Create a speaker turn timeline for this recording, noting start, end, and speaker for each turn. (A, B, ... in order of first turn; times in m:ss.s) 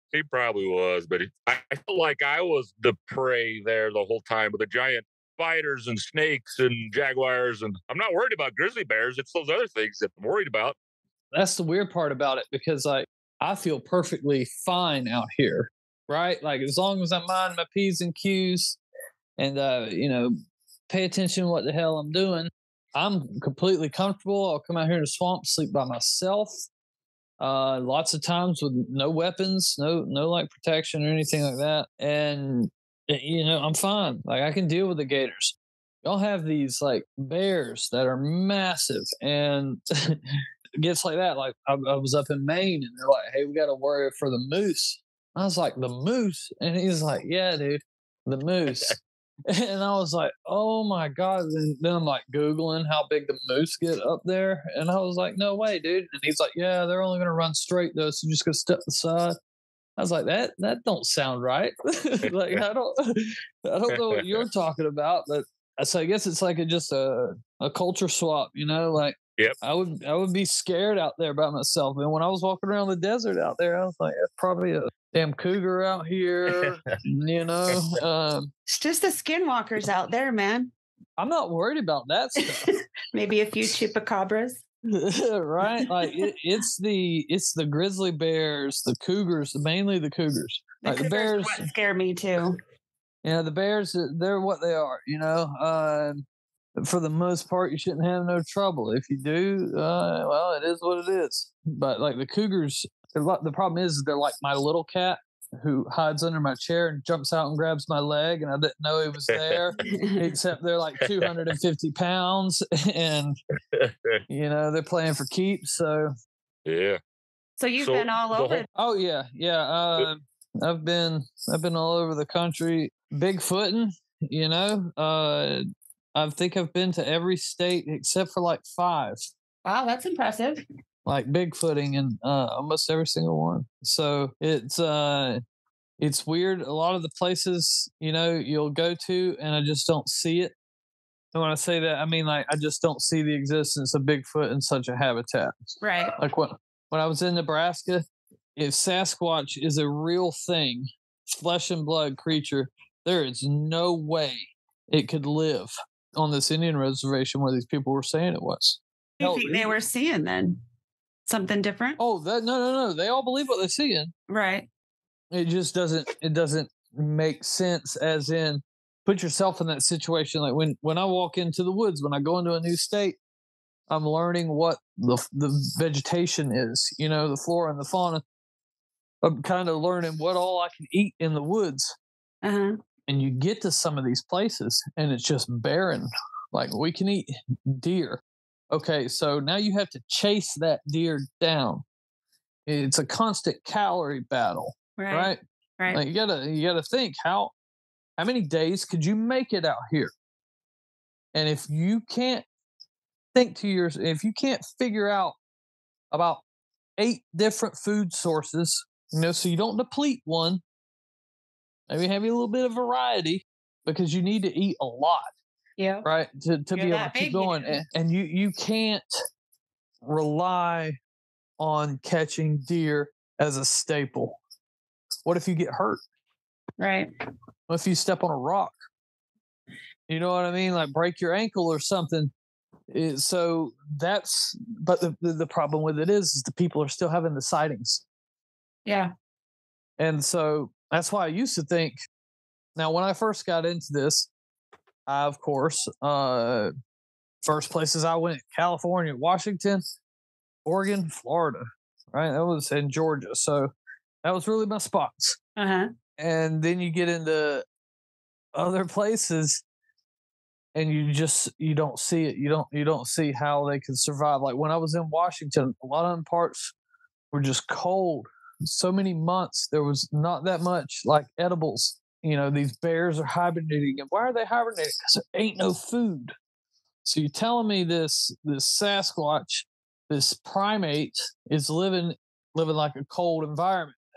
0:00.1-0:10.8 A
0:11.3-0:18.8 B
0:19.4-0:20.4 B
0:20.9-0:26.5 B
0:27.4-0:40.2 B
0:40.8-0:49.0 B
0:49.5-0:59.4 B
1:00.0-1:18.5 B
1:03.9-1:04.3 A
1:18.7-1:20.7 C
1:21.2-1:22.7 B
1:22.4-1:24.6 C
1:24.9-1:31.6 B
1:30.8-1:32.6 C
1:33.2-1:36.2 B
1:36.8-1:53.4 B
1:49.3-1:49.6 A
1:49.8-1:50.2 C
1:51.0-1:51.3 A
1:53.7-1:54.2 A
1:54.3-1:56.1 B
1:56.7-1:57.0 A
1:57.6-1:58.7 C
1:57.8-1:58.6 A
1:58.8-2:05.6 B
2:06.2-2:09.2 B
2:09.6-2:10.6 C
2:11.1-2:15.4 B
2:16.0-2:20.5 B
2:21.3-2:25.6 B
2:25.8-2:26.2 C
2:26.2-2:28.0 B
2:28.6-2:39.7 B
2:39.2-2:40.6 C
2:41.3-2:42.0 C
2:42.0-2:44.1 B
2:44.3-2:44.7 C
2:45.3-2:53.2 B
2:53.9-2:58.2 B
2:59.2-3:02.0 B
3:02.4-3:02.8 C
3:03.1-3:11.8 B
3:12.7-3:17.5 B
3:15.0-3:16.0 C
3:18.2-3:20.1 B
3:21.3-3:22.4 B
3:23.3-3:25.4 B
3:26.1-3:26.4 B
3:27.0-3:30.6 B
3:31.9-3:35.3 B
3:35.8-3:36.1 C
3:36.0-3:39.1 B
3:36.8-3:37.8 C
3:40.0-3:41.0 B
3:41.6-3:44.4 B
3:45.2-3:46.0 B
3:46.8-3:47.1 C
3:47.7-3:48.7 B
3:50.1-3:52.3 B
3:52.9-3:58.0 B
3:58.9-3:59.1 C
4:00.0-4:02.0 B
4:02.8-4:04.3 B
4:05.1-4:06.7 B
4:07.4-4:09.8 B
4:10.6-4:13.7 B
4:14.2-4:15.4 B
4:15.6-4:15.9 C
4:16.2-4:17.6 B
4:18.6-4:19.6 B
4:20.8-4:26.7 B
4:27.3-4:36.3 B
4:37.0-4:44.0 B